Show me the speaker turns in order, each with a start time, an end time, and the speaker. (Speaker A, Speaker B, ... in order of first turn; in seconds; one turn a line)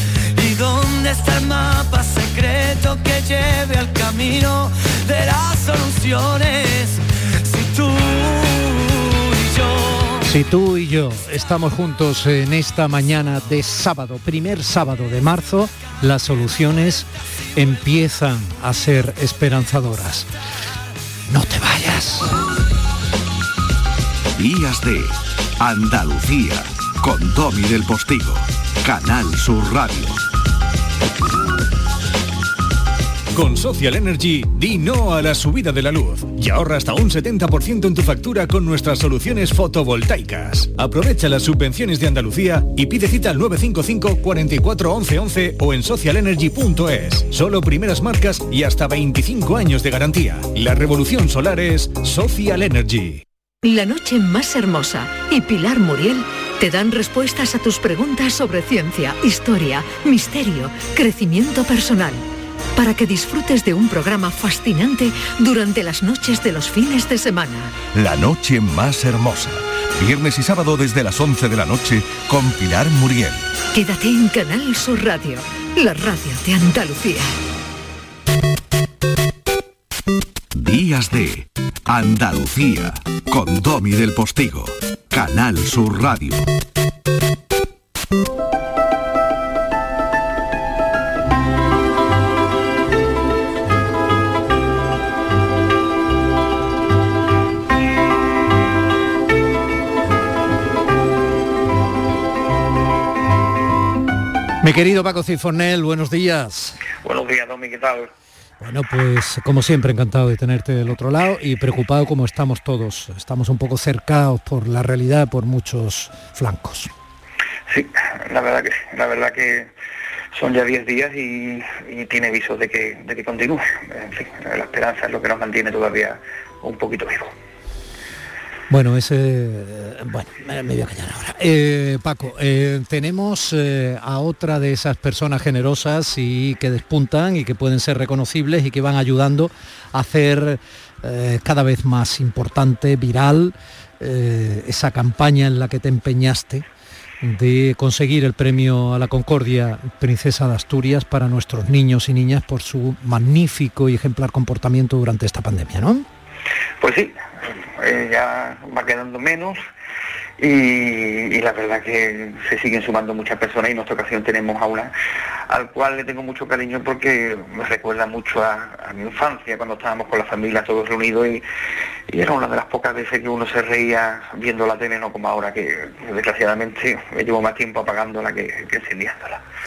Speaker A: 0.3-10.3
Speaker B: 10.2-20.3
Speaker B: 21.3-22.3
Speaker C: 24.4-30.1
Speaker D: 33.3-53.2
Speaker E: 53.6-62.2
Speaker E: 62.8-67.7
Speaker C: 67.9-73.4
Speaker E: 73.7-77.3
Speaker C: 80.5-86.5
Speaker B: 104.6-106.8
Speaker F: 107.0-108.1
Speaker B: 108.6-116.9
Speaker F: 117.7-119.7
Speaker F: 120.3-127.3
Speaker B: 128.7-146.7
Speaker B: 147.2-156.1
Speaker F: 156.8-159.6
Speaker F: 160.4-164.9
Speaker F: 165.5-171.4
Speaker F: 172.1-179.4